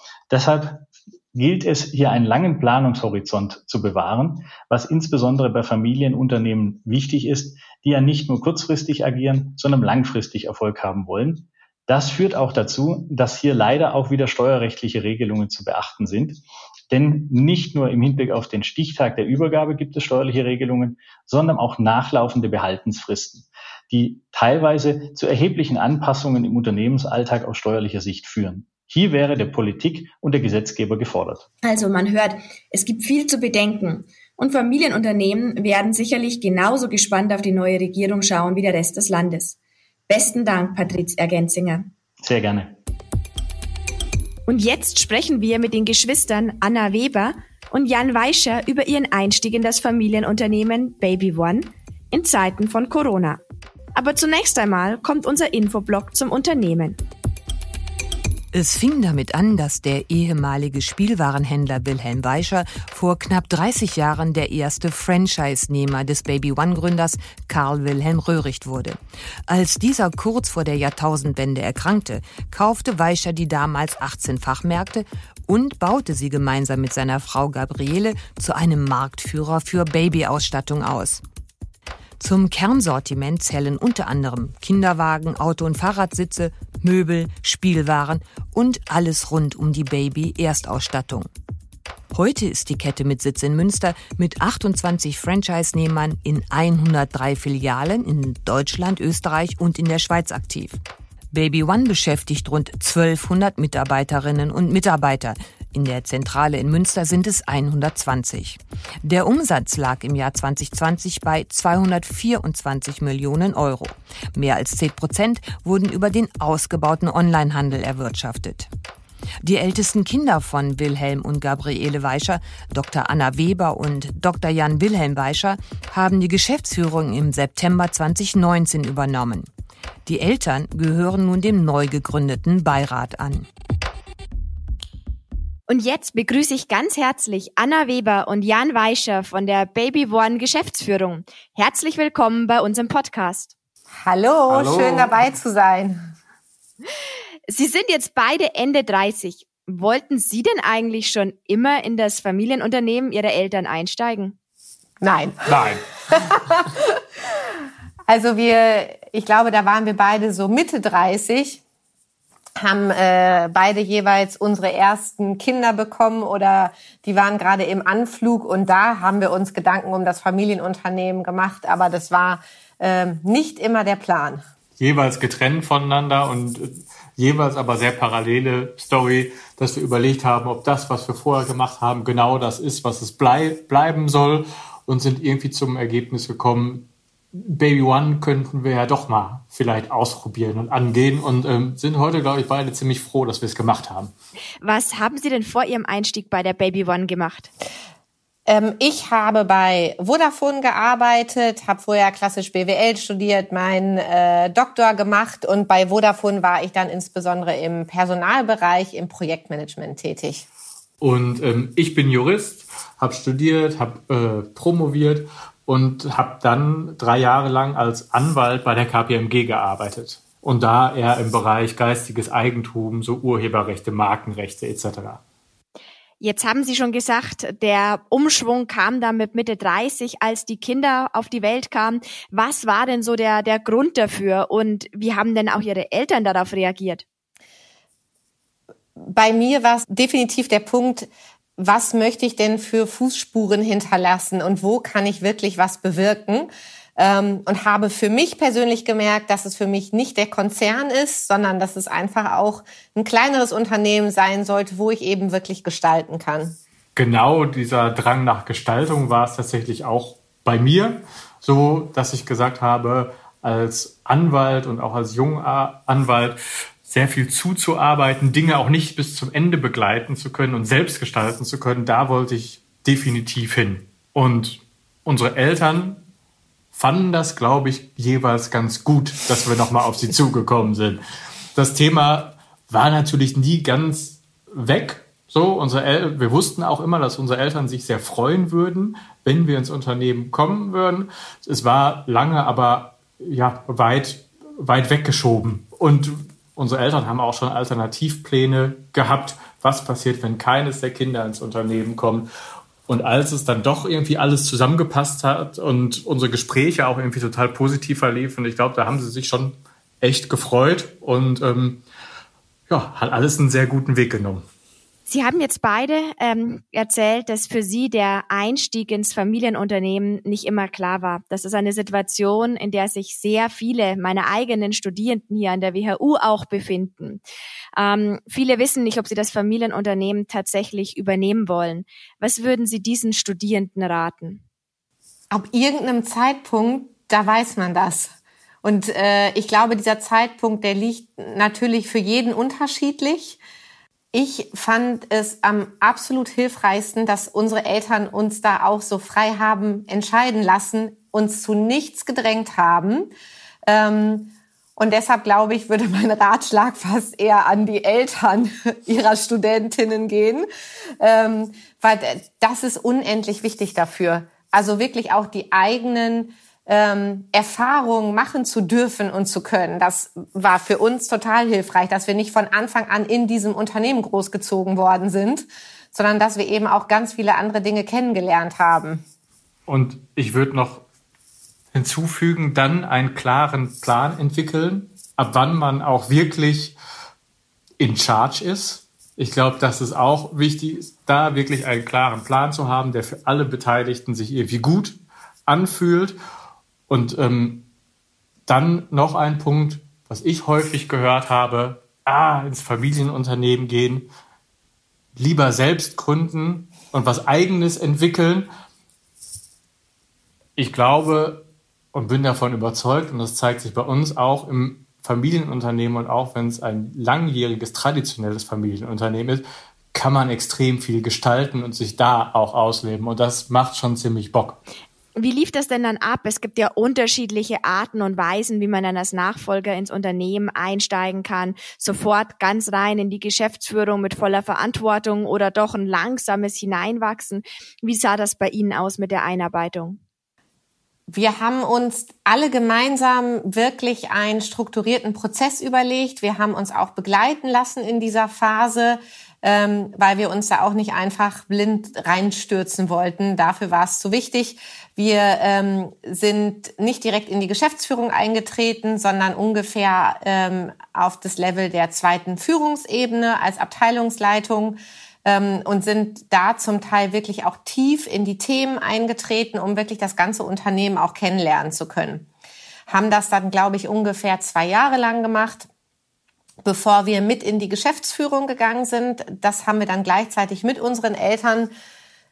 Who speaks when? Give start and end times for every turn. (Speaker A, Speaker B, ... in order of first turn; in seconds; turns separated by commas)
Speaker A: 0.3-31.5, Speaker B: 31.6-39.6, Speaker B: 40.1-41.9, Speaker A: 42.2-42.8, Speaker B: 44.5-53.4, Speaker B: 54.0-57.0, Speaker C: 58.5-81.2, Speaker C: 82.2-91.3, Speaker C: 92.1-100.8, Speaker C: 101.3-118.7, Speaker C: 119.4-129.5, Speaker C: 130.1-133.5, Speaker B: 135.7-143.5, Speaker D: 144.0-146.0, Speaker E: 144.5-145.2, Speaker B: 147.5-154.4, Speaker D: 155.0-156.9, Speaker E: 155.4-155.8, Speaker D: 158.1-161.6, Speaker D: 162.6-174.4, Speaker E: 174.8-194.1, Speaker B: 194.6-197.5, Speaker D: 198.5-210.4, Speaker E: 211.0-225.2, Speaker B: 226.2-237.0, Speaker D: 239.0-256.6, Speaker E: 257.0-276.0, Speaker E: 276.7-281.0, Speaker E: 281.6-302.3, Speaker E: 302.9-311.8, Speaker E: 312.7-314.4, Speaker B: 315.1-327.2, Speaker B: 327.8-334.4, Speaker D: 335.3-343.4, Speaker D: 344.1-353.1, Speaker D: 353.7-360.5, Speaker D: 361.0-379.0, Speaker E: 379.7-380.9, Speaker E: 381.7-386.8, Speaker E: 387.8-396.2, Speaker E: 396.9-397.6, Speaker E: 398.5-404.1, Speaker E: 405.2-408.5, Speaker E: 410.6-424.6, Speaker B: 425.2-440.0, Speaker D: 441.1-472.3, Speaker D: 472.9-475.7, Speaker D: 476.6-481.7